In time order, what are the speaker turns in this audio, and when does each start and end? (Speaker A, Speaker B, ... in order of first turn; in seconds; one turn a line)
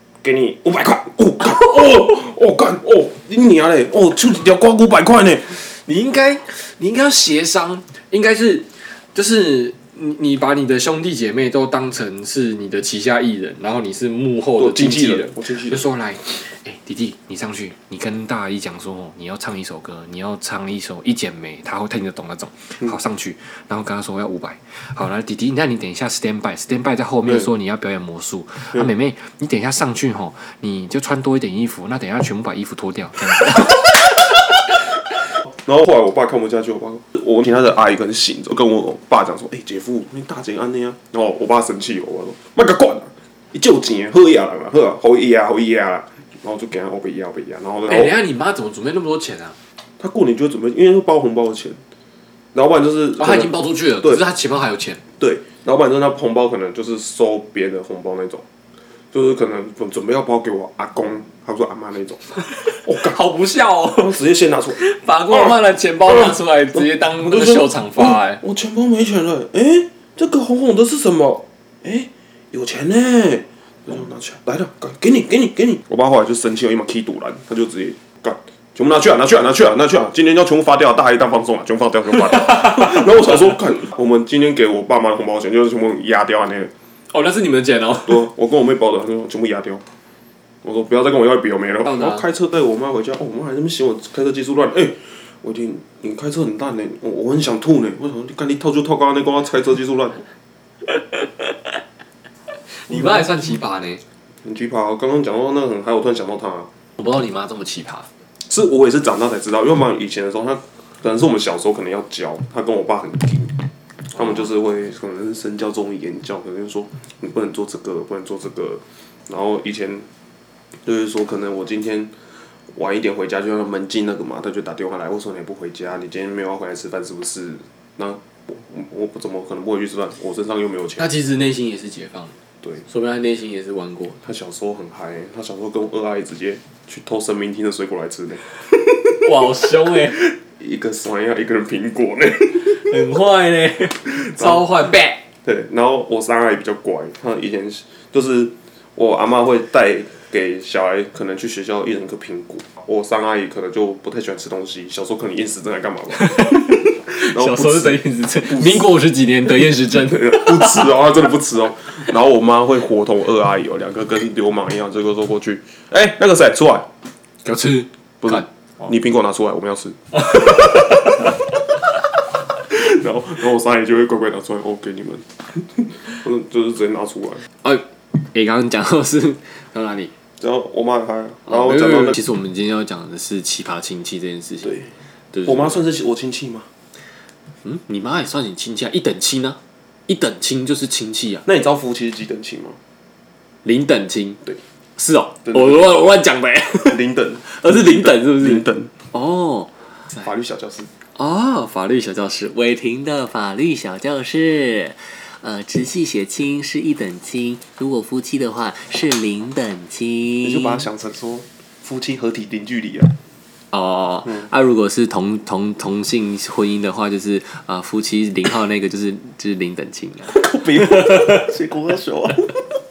Speaker A: 0.2-5.6
Speaker B: 5.5-33.9
Speaker A: 14.6-15.8
Speaker A: 35.5-48.2
Speaker B: 47.9-49.6
Speaker A: 50.0-51.8
Speaker A: 52.5-54.2
Speaker B: 53.2-55.0
Speaker A: 55.2-58.4
Speaker A: 59.1-63.2
Speaker B: 62.5-64.2
Speaker A: 64.0-64.8
Speaker B: 64.7-68.4
Speaker A: 65.3-86.7
Speaker B: 82.5-83.5
Speaker B: 87.1-88.3
Speaker A: 88.0-89.8
Speaker A: 90.6-100.2
Speaker B: 91.8-92.2
Speaker B: 101.0-101.5
Speaker B: 102.7-104.0
Speaker A: 102.9-103.4
Speaker A: 104.4-106.7
Speaker B: 107.0-108.1
Speaker A: 108.4-113.6
Speaker A: 114.1-120.1
Speaker A: 120.8-122.1
Speaker A: 122.7-131.1
Speaker B: 131.0-132.3
Speaker B: 132.9-134.2
Speaker A: 134.2-138.6
Speaker B: 139.1-140.2
Speaker A: 139.2-143.0
Speaker B: 142.6-145.2
Speaker A: 144.2-144.6
Speaker A: 145.4-158.9
Speaker B: 156.2-160.9
Speaker A: 159.7-166.9
Speaker B: 167.4-168.9
Speaker A: 168.2-171.3
Speaker B: 170.3-171.2
Speaker A: 172.7-177.4
Speaker B: 177.6-180.1
Speaker A: 180.4-182.2
Speaker B: 181.5-184.8
Speaker A: 184.6-184.9
Speaker B: 185.3-185.8
Speaker A: 185.4-186.7
Speaker B: 187.6-191.4
Speaker A: 191.4-192.8
Speaker B: 193.6-194.4
Speaker B: 195.0-200.3
Speaker A: 195.4-196.0
Speaker A: 196.8-198.9
Speaker A: 200.2-200.9
Speaker B: 201.1-210.9
Speaker A: 210.4-213.1
Speaker B: 213.7-221.2
Speaker A: 220.2-222.6